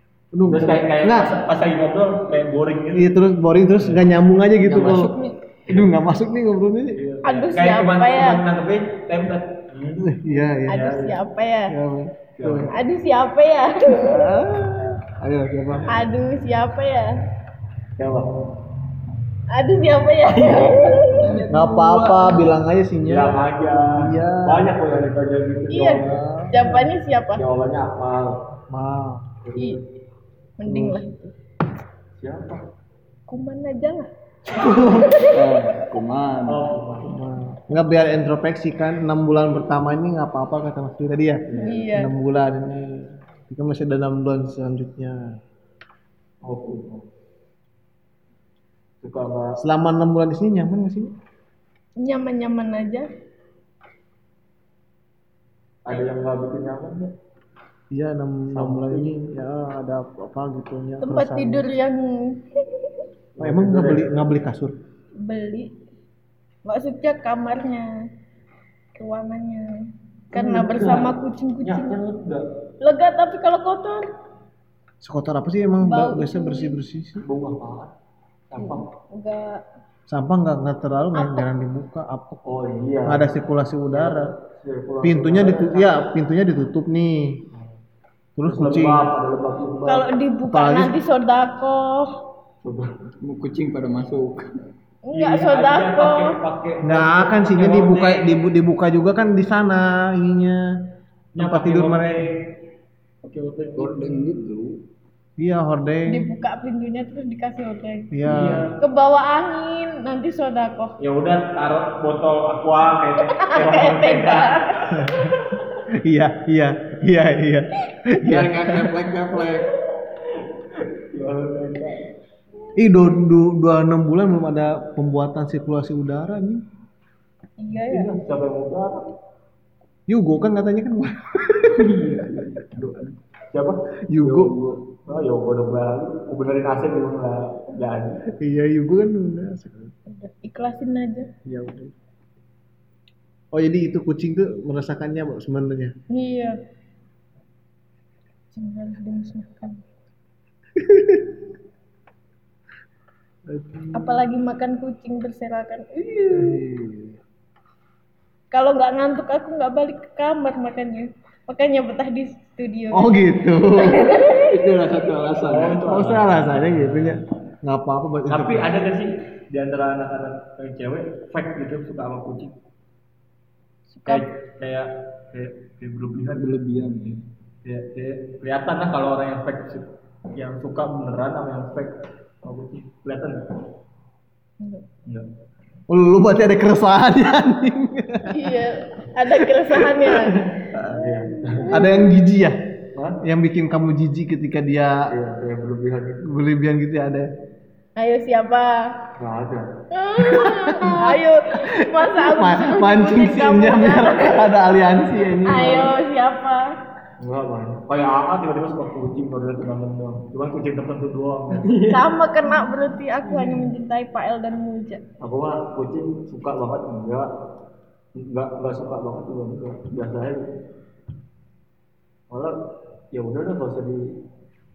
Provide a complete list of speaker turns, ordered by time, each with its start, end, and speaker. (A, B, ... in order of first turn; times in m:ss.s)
0:00.3-0:01.3 A
0:00.5-0:03.1 B
0:02.9-0:05.2 A
0:04.6-0:05.1 B
0:04.8-0:05.4 C
0:05.7-0:07.0 A
0:06.9-0:10.1 B
0:07.2-0:08.4 D
0:10.0-0:11.1 A
0:10.7-0:11.7 D
0:10.8-0:11.1 B
0:11.7-0:12.7 A
0:12.4-0:12.7 B
0:12.7-0:14.2 D
0:13.9-0:15.9 A
0:15.9-0:17.1 D
0:18.0-0:18.3 B
0:19.5-0:21.5 D
0:20.7-0:22.4 C
0:21.5-0:25.1 A
0:22.2-0:22.5 D
0:23.0-0:26.2 B
0:25.7-0:27.4 D
0:25.7-0:26.9 A
0:27.4-0:28.4 B
0:28.7-0:29.4 A
0:29.4-0:29.8 B
0:30.6-0:31.3 D
0:30.7-0:31.0 A
0:32.2-0:32.6 B
0:33.3-0:34.1 D
0:34.6-0:35.1 A
0:34.6-0:35.6 D
0:35.3-0:36.7 C
0:36.5-0:37.1 B
0:37.0-0:45.4 A
0:41.5-0:42.1 D
0:46.4-0:47.0 B
0:49.0-0:49.6 B
0:49.6-0:51.1 A
0:52.0-0:53.1 D
0:55.8-0:57.1 B
0:57.9-1:01.7 A
0:58.5-0:59.1 B
1:01.0-1:02.9 D
1:03.4-1:04.1 B
1:03.4-1:04.8 A
1:05.2-1:05.7 D
1:06.6-1:07.9 D
1:09.0-1:09.8 D
1:10.3-1:12.0 D
1:10.3-1:12.4 B
1:12.8-1:14.0 D
1:15.0-1:17.2 A
1:15.8-1:16.8 D
1:17.2-1:17.9 B
1:18.5-1:18.8 B
1:18.6-1:19.6 D
1:20.1-1:22.4 A
1:21.2-1:21.4 D
1:22.5-1:23.3 B
1:23.0-1:24.3 A
1:23.9-1:26.0 B
1:25.0-1:27.5 A
1:28.4-1:29.1 A
1:28.4-1:30.0 B
1:29.9-1:32.1 D
1:30.5-1:30.9 A
1:32.6-1:32.9 B
1:33.2-1:34.5 C
1:35.1-1:36.4 D
1:35.1-1:38.2 B
1:36.8-1:40.6 A
1:41.4-1:42.4 B
1:41.4-1:42.2 A
1:43.2-1:44.4 B
1:43.8-1:44.8 C
1:45.4-1:46.2 A
1:46.1-1:48.1 D
1:48.1-1:48.7 A
1:48.3-1:48.8 B
1:48.8-1:51.0 D
1:51.0-1:55.0 B
1:53.4-1:54.9 D
1:54.9-1:55.4 A
1:56.0-1:59.0 A
1:58.2-1:59.7 C
2:01.1-2:02.0 B
2:02.8-2:06.6 A
2:07.6-2:08.1 D
2:07.9-2:09.0 B
2:10.1-2:11.9 A
2:11.7-2:13.1 C
2:13.5-2:13.8 B
2:14.1-2:14.6 A
2:14.2-2:15.0 C
2:15.1-2:18.2 B
2:18.4-2:19.9 A
2:20.1-2:21.3 D
2:21.5-2:21.9 A
2:23.5-2:26.0 A
2:26.1-2:26.6 D
2:28.5-2:29.8 D
2:30.8-2:31.4 A
2:33.5-2:34.3 A
2:34.0-2:36.6 D
2:36.3-2:37.2 A
2:38.5-2:43.1 D
2:42.9-2:44.1 A
2:43.8-2:44.5 D
2:44.3-2:45.8 C
2:45.4-2:47.2 B
2:45.8-2:48.7 A
2:48.3-2:52.5 B
2:53.9-2:54.2 D
2:54.1-2:56.5 B
2:56.3-2:57.2 C
2:57.6-3:03.4 B
3:05.9-3:08.6 A
3:08.3-3:10.4 D
3:09.5-3:10.2 A
3:10.8-3:11.9 B
3:11.6-3:11.9 D
3:11.7-3:12.6 A
3:13.0-3:13.2 B
3:13.2-3:15.1 A
3:15.1-3:16.3 B
3:16.2-3:17.3 A
3:18.0-3:18.9 D
3:19.2-3:19.7 B
3:19.9-3:24.4 D
3:20.2-3:26.0 A
3:25.4-3:26.7 D
3:27.2-3:31.9 B
3:31.6-3:32.1 C
3:31.9-3:35.0 D
3:35.2-3:37.3 B
3:38.2-3:40.4 B
3:43.1-3:44.0 B